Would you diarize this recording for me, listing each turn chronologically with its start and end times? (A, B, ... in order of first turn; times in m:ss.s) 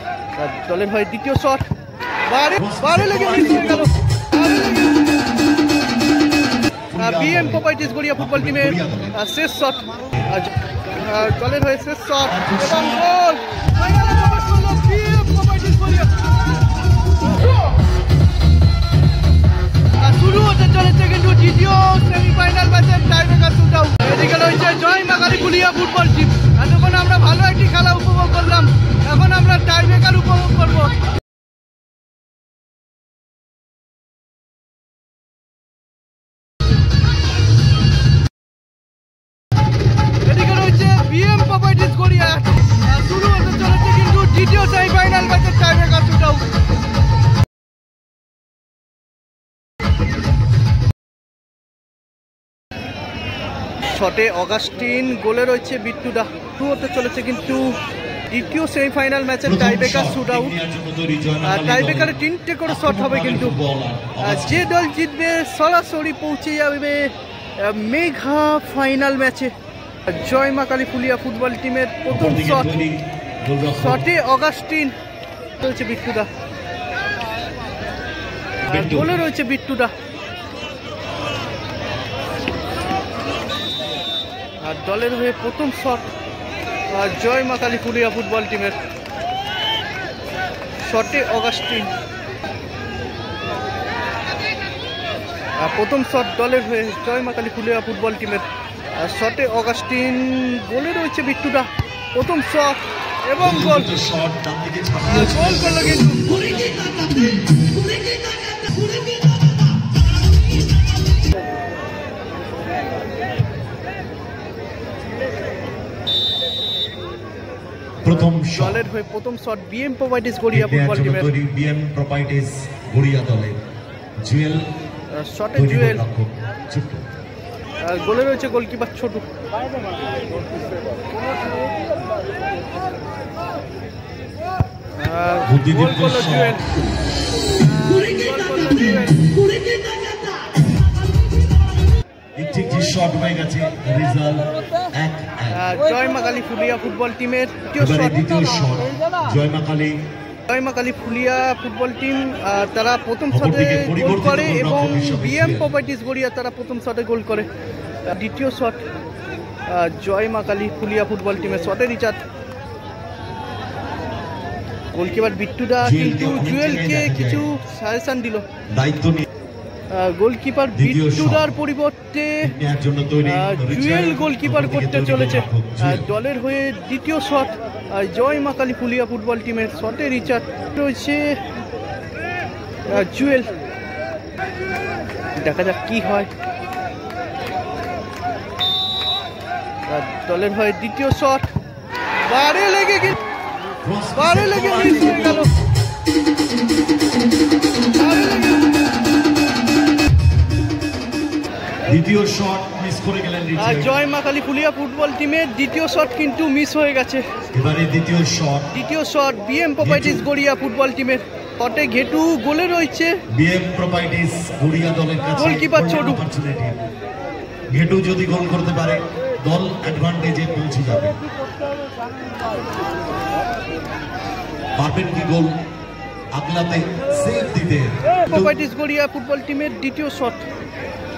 0:00.4-0:01.6 A
0:02.3-0:05.1 A
0:02.6-0:03.9 B
0:06.9-0:09.2 B
0:07.0-0:16.3 A
0:12.3-0:13.1 B
0:20.0-0:31.0 A
0:40.2-0:46.4 A
0:53.9-0:57.8 A
0:58.3-1:00.5 A
0:59.4-1:04.7 B
1:01.4-1:03.6 A
1:04.2-1:09.5 A
1:10.1-1:12.8 A
1:12.1-1:14.1 B
1:13.8-1:15.0 A
1:15.6-1:16.3 A
1:18.7-1:19.2 B
1:18.7-1:19.9 A
1:24.6-1:26.0 A
1:26.9-1:28.8 A
1:30.8-1:31.9 A
1:35.6-1:38.5 A
1:39.0-1:43.9 A
1:43.4-1:47.3 B
1:45.0-1:46.4 A
1:58.0-1:58.8 B
1:58.4-2:01.3 A
2:00.5-2:03.6 B
2:04.2-2:04.7 B
2:05.1-2:06.0 A
2:05.5-2:07.1 B
2:07.8-2:09.3 A
2:15.0-2:16.7 A
2:15.4-2:16.6 B
2:17.6-2:19.4 A
2:22.4-2:25.7 B
2:25.5-2:28.3 A
2:27.8-2:30.0 B
2:30.5-2:37.5 A
2:33.3-2:35.7 B
2:38.1-2:38.8 A
2:39.7-2:42.2 A
2:44.9-2:48.5 A
2:45.8-2:47.5 B
2:48.7-2:49.3 B
2:49.9-2:52.5 A
2:50.8-2:51.6 B
2:52.4-2:56.1 B
2:53.2-3:01.4 A
3:02.9-3:03.5 A
3:05.4-3:06.3 A
3:09.9-3:11.5 A
3:12.2-3:13.2 A
3:13.8-3:15.5 B
3:14.2-3:15.5 A
3:17.9-3:18.7 A
3:21.9-3:24.0 B
3:23.6-3:27.2 A
3:27.5-3:28.7 B
3:28.7-3:33.1 A
3:29.8-3:30.2 B
3:33.3-3:36.8 B
3:35.4-3:36.2 A
3:37.7-3:41.2 B
3:44.8-3:45.5 B
3:46.3-3:48.6 B
3:48.3-3:50.5 A